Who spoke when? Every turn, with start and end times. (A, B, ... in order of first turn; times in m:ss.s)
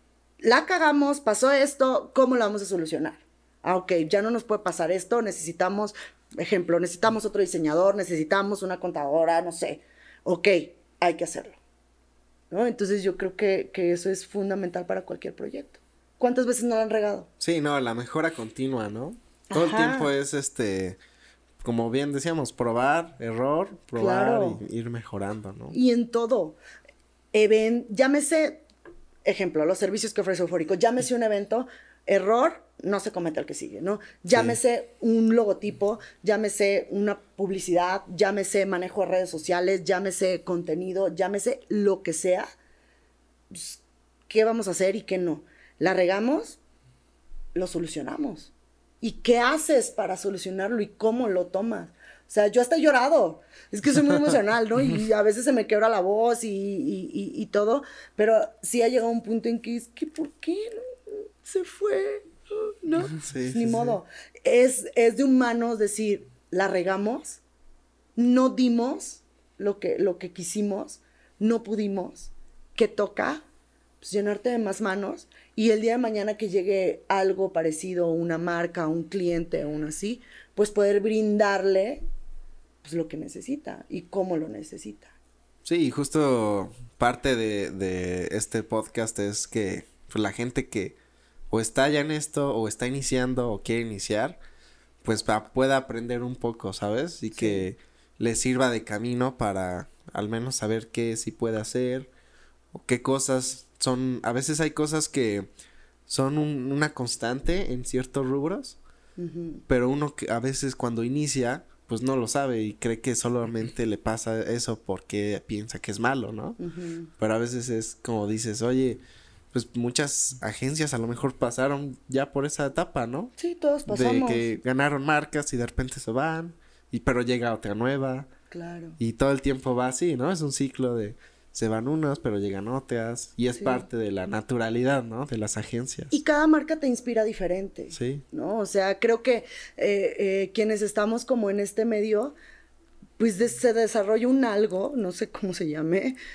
0:00.4-0:11.6 A
0:12.5-0:17.3 A
0:17.4-0:21.0 B
0:19.5-0:20.1 A
0:21.6-0:25.8 B
0:24.0-0:24.6 A
0:25.7-0:26.6 A
0:27.3-0:28.6 A
0:29.2-0:42.5 A
0:34.3-0:34.6 B
0:43.5-0:46.6 A
0:47.6-1:07.4 A
1:03.2-1:04.0 B
1:08.2-1:13.4 A
1:14.0-1:22.0 A
1:22.8-1:25.1 A
1:25.6-1:30.9 B
1:31.5-1:34.4 B
1:35.0-1:42.1 B
1:37.3-1:37.6 A
1:42.7-1:45.5 B
1:46.1-1:48.8 B
1:49.2-1:49.6 A
1:49.7-1:56.6 B
1:56.6-1:57.1 A
1:57.2-2:03.3 B
2:03.4-2:04.5 A
2:03.8-2:08.3 B
2:08.5-2:09.0 A
2:09.0-2:16.1 B
2:13.6-2:13.8 A
2:16.1-2:22.4 A
2:17.9-2:18.2 B
2:23.2-2:26.2 A